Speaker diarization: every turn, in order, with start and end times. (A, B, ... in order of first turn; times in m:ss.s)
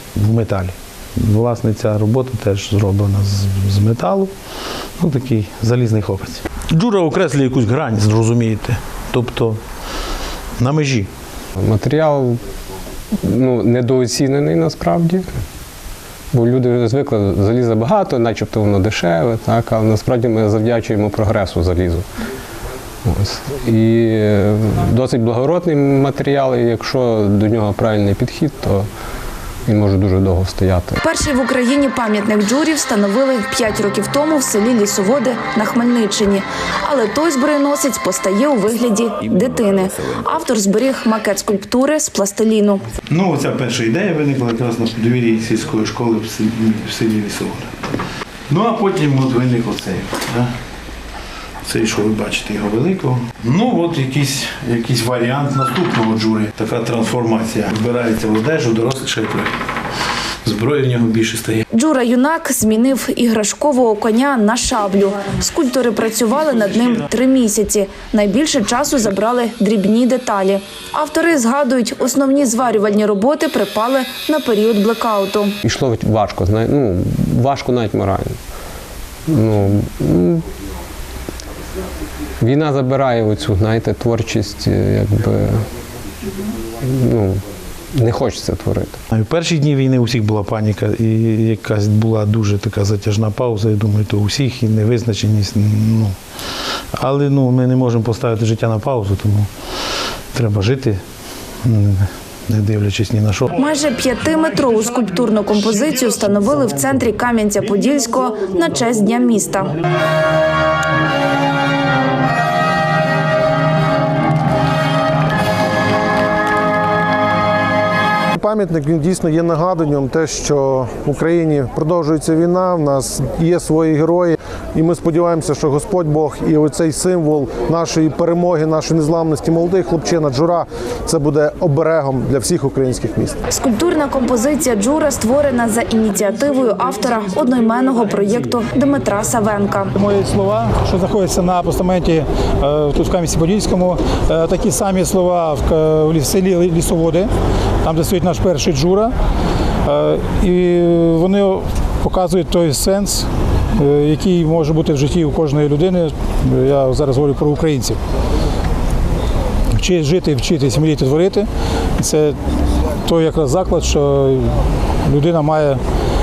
0:00.1-0:04.3 A
0:05.0-0:09.6 A
0:10.6-0:11.1 A
0:11.6-0:12.4 B
0:13.2-0:15.2 B
0:16.3-0:22.0 B
0:23.0-0:28.9 B
0:29.6-0:31.0 B
0:31.0-0:42.8 C
0:43.1-0:47.9 A
0:48.5-0:50.5 A
0:51.6-0:59.6 A
1:00.4-1:01.6 A
1:01.7-1:15.5 C
1:15.6-1:18.4 B
1:19.3-1:20.4 B
1:22.4-1:25.6 B
1:26.8-1:27.4 B
1:27.9-1:29.0 B
1:29.1-1:36.1 A
1:37.0-1:39.5 A
1:40.3-1:41.0 A
1:41.6-1:43.5 A
1:43.5-1:49.7 C
1:58.3-2:13.4 D
2:13.5-2:19.9 C
2:19.9-2:27.3 E
2:27.8-2:29.1 E
2:29.8-2:38.0 E
2:39.7-2:41.5 E
2:42.0-2:42.4 E
2:43.0-2:45.8 E